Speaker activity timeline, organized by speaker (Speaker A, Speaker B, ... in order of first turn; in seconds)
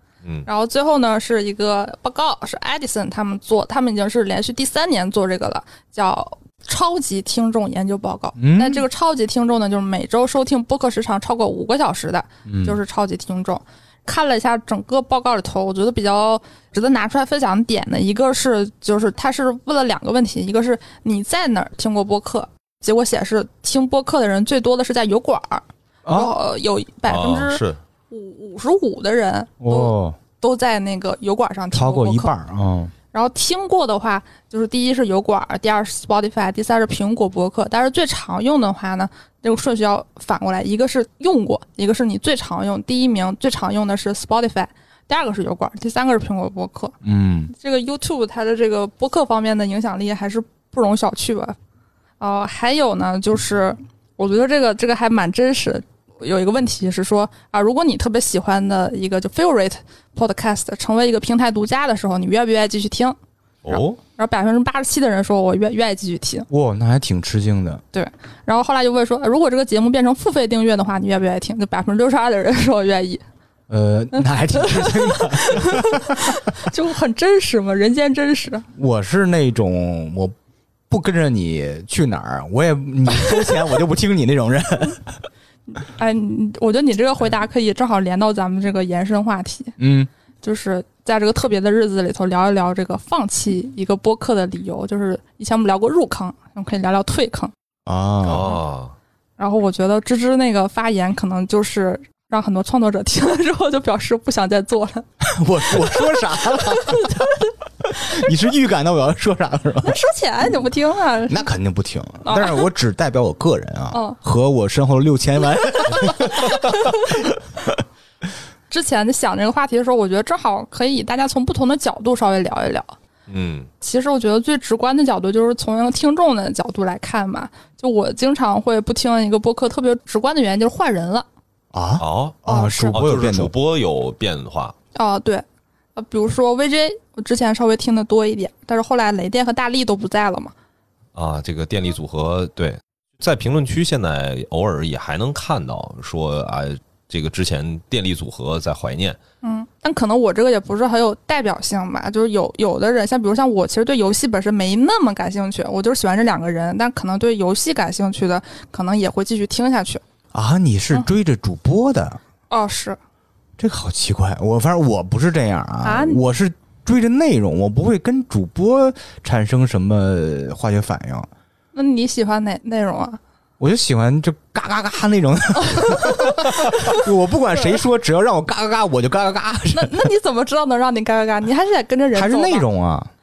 Speaker A: 0.5-32.3, 33.1-47.0, 47.5-51.5, 52.2-63.1, 63.7-66.5, 67.9-73.2, 74.1-78.7, 85.7-89.8, 90.4-97.5, 99.4-105.1, 105.7-108.0, 109.8-111.5, 112.2-112.6, 113.9-114.2, 118.7-123.0, 123.8-131.2, 132.5-133.0, 134.9-140.5, 149.4-160.0, 162.5-163.0, 165.8-166.2, 171.7-173.2, 175.7-177.0, 179.7-182.6
Speaker B: 8.4-8.9, 12.5-12.8, 26.1-26.3, 29.6-30.2, 31.7-32.9, 47.0-47.5, 66.5-67.8, 73.7-76.2, 78.8-80.3, 80.9-85.1, 89.8-90.1, 97.9-98.5, 105.2-107.3, 107.8-110.0, 111.3-116.6, 131.7-133.5, 160.3-162.2, 163.6-171.3, 173.6-180.1, 182.1-183.1
Speaker C: 27.1-27.8, 63.6-64.0, 98.2-98.9, 123.3-123.7, 132.0-132.4, 132.9-134.8, 141.1-149.2